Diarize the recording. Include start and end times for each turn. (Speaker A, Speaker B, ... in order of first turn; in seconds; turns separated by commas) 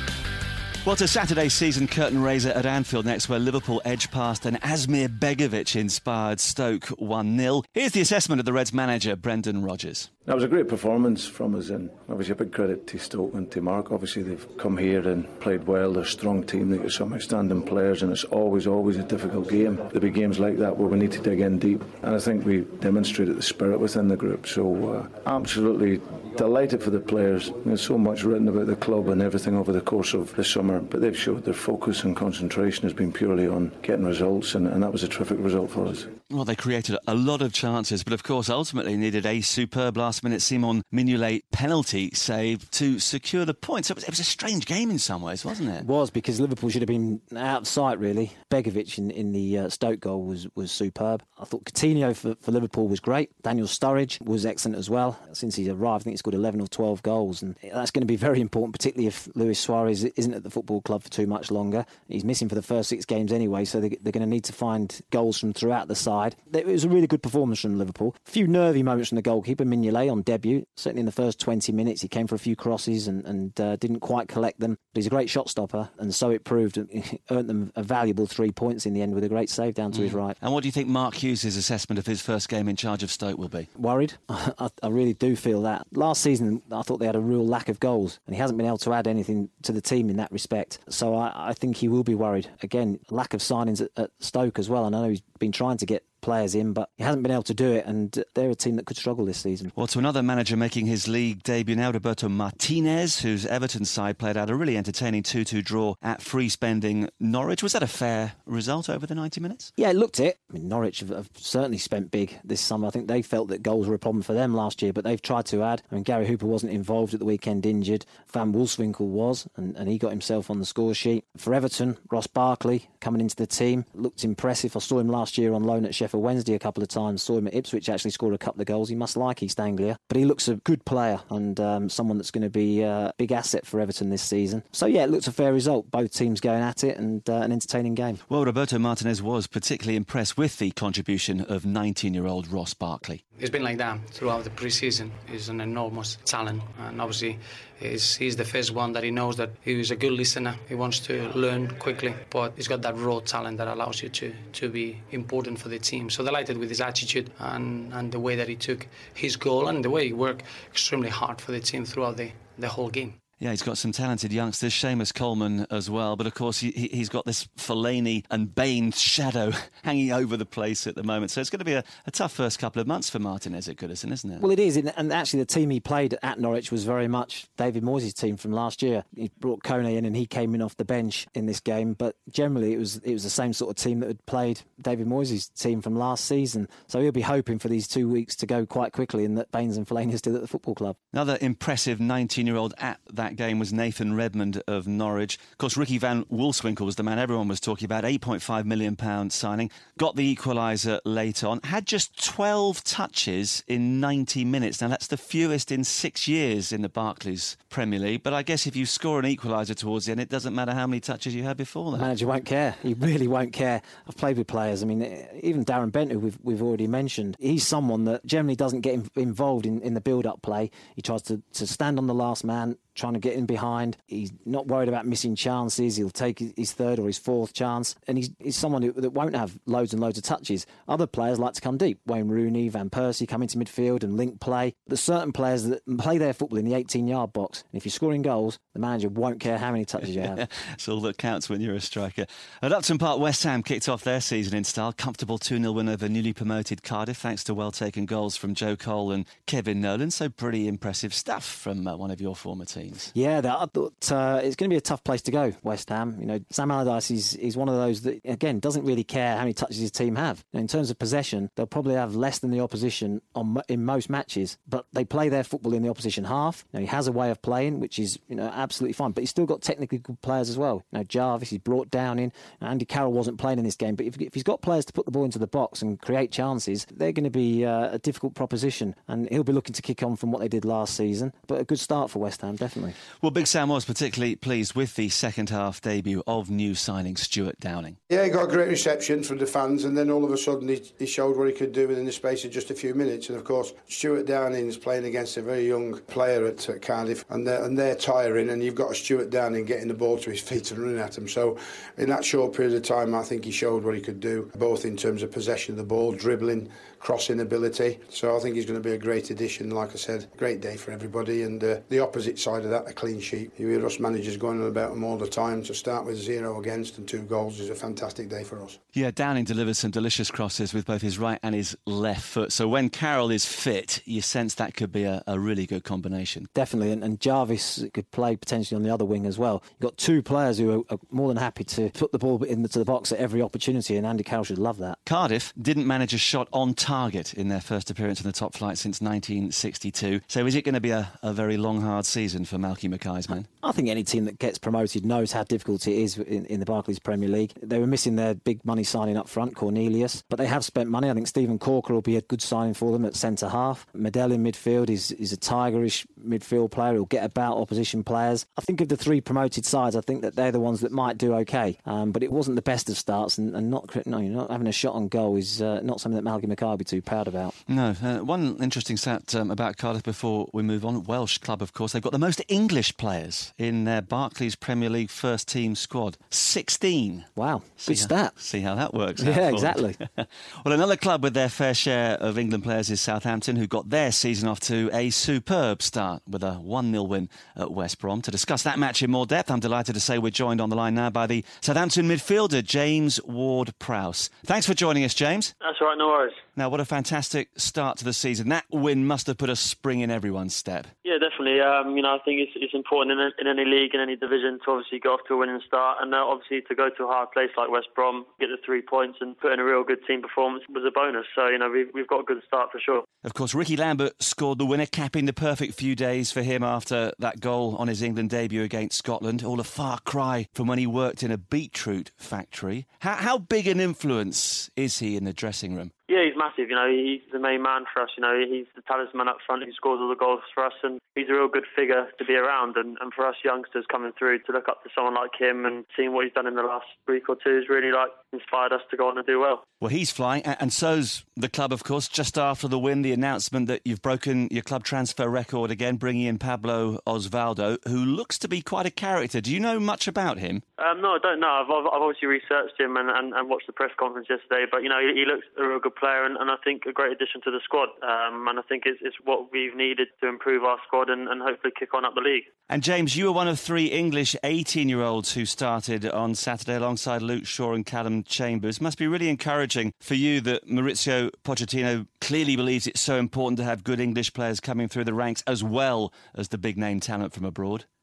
Speaker A: 0.8-10.1, Speaker B: 10.2-36.1, Speaker A: 36.3-45.9, Speaker C: 45.8-80.3, Speaker A: 79.9-83.7, Speaker C: 83.8-99.7, Speaker A: 99.8-109.7, Speaker C: 109.8-138.2, Speaker A: 138.3-143.2, Speaker D: 143.4-163.2, Speaker A: 163.4-174.4, Speaker C: 174.4-191.0, Speaker A: 191.1-212.1, Speaker C: 211.9-240.4, Speaker A: 240.1-253.1, Speaker C: 253.1-282.9, Speaker A: 283.2-288.0, Speaker E: 288.1-318.8, Speaker A: 318.9-326.5, Speaker C: 326.5-335.0, Speaker A: 335.1-343.5, Speaker C: 343.6-367.6, Speaker A: 367.7-377.3, Speaker C: 377.4-378.3, Speaker A: 377.8-395.5, Speaker C: 379.2-380.0, Speaker F: 395.6-396.4, Speaker A: 396.6-400.9, Speaker F: 401.0-413.0, Speaker A: 413.2-425.9, Speaker F: 426.1-439.6, Speaker A: 439.8-450.6, Speaker F: 450.8-462.5, Speaker A: 462.7-477.9